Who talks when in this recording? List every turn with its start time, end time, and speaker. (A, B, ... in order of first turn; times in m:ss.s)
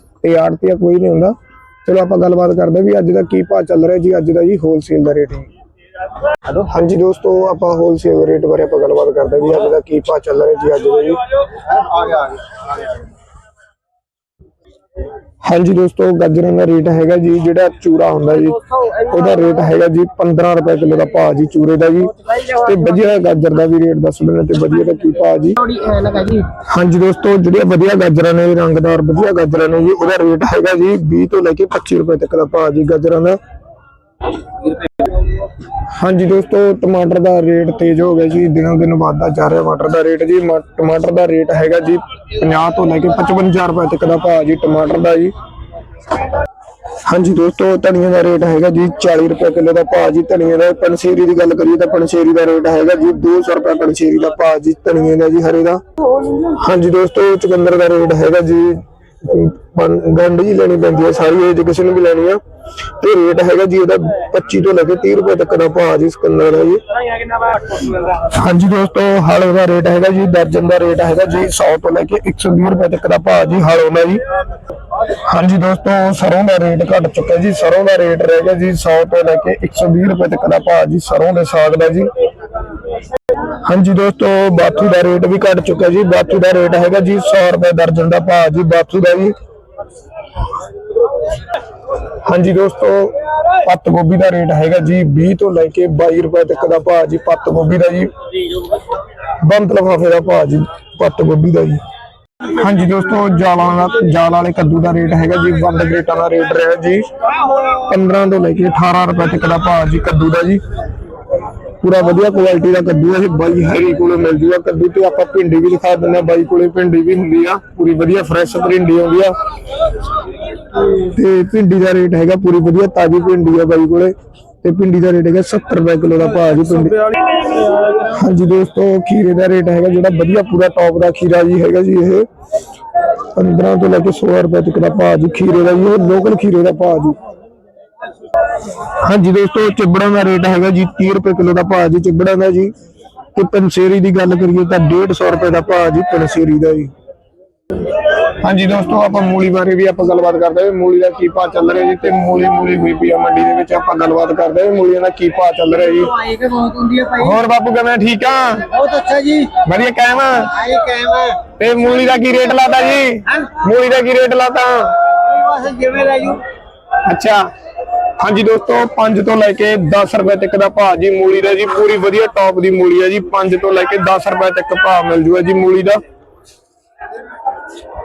0:00.2-0:05.5 A
0:06.5-0:11.3 A
0:12.0-0:12.2 B
0:15.4-0:25.6 A
0:25.6-0:26.5 B
0:26.5-0:33.4 A
0:35.8-0:45.3 A
0:47.0-0:55.8 A
0:56.4-1:02.4 A
1:03.0-1:06.8 A
1:07.5-1:14.2 A
1:15.1-1:22.1 A
1:23.6-1:29.3 A
1:32.2-1:38.1 A
1:39.4-1:41.8 A
1:42.5-1:47.1 A
1:47.7-1:50.6 A
1:51.8-1:59.3 A
2:00.9-2:07.1 A
2:07.9-2:12.3 A
2:13.3-2:17.2 A
2:18.7-2:22.7 A
2:23.3-2:26.9 A
2:28.3-2:36.2 A
2:36.1-2:37.3 B
2:37.2-2:38.7 A
2:38.7-2:39.6 B
2:39.6-2:40.6 A
2:40.5-2:41.4 B
2:41.5-2:45.1 A
2:45.2-2:46.5 B
2:47.0-2:47.5 A
2:48.2-2:56.0 A